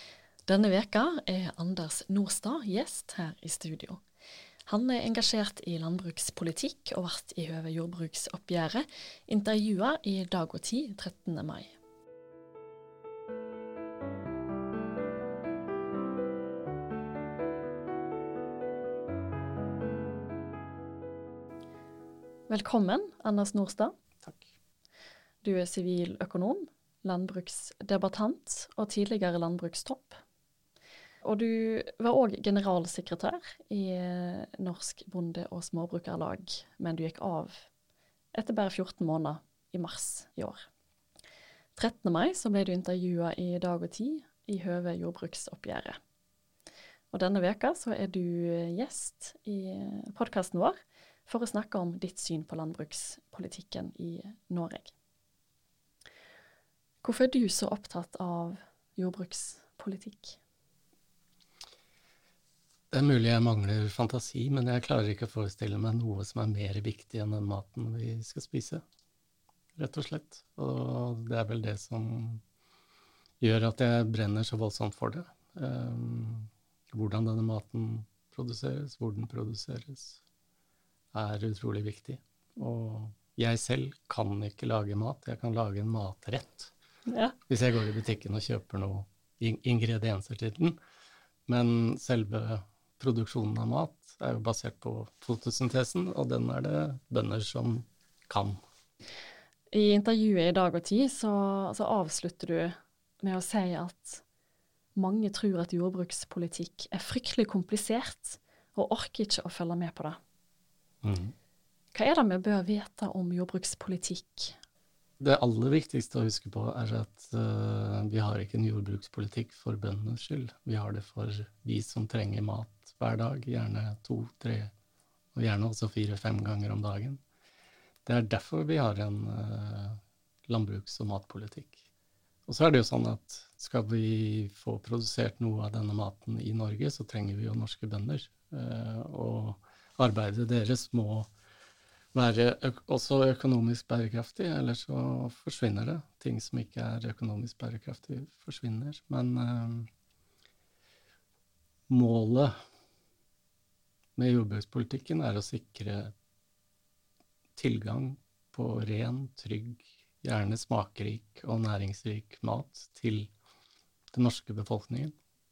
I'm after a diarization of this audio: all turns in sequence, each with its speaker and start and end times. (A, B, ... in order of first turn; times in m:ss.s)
0:00.5-0:04.0 A
0:04.7-0:11.7 A
0:22.5-0:24.0 A
0:25.4-0:30.2 A
0:31.2-0:37.7 A
0:38.3-0:40.6 A
0:41.8-0:46.0 A
0:47.1-0:50.8 A
0:51.3-0:54.9 A
0:57.0-1:00.4 A
1:02.9-1:08.8 B
1:09.8-1:12.4 B
1:13.4-1:20.2 B
1:21.1-1:26.7 B
1:27.1-1:27.4 A
1:27.5-1:30.8 B
1:31.5-1:38.6 B
1:39.7-1:44.2 A
1:44.9-1:50.2 A
1:51.0-1:51.3 B
1:51.9-1:54.6 A
1:55.2-2:04.7 B
2:05.3-2:07.2 B
2:08.0-2:11.9 B
2:12.5-2:21.3 B
2:22.1-2:29.9 B
2:31.9-2:32.5 B
2:34.2-2:36.1 B
2:37.6-2:43.3 B
2:44.1-2:45.1 B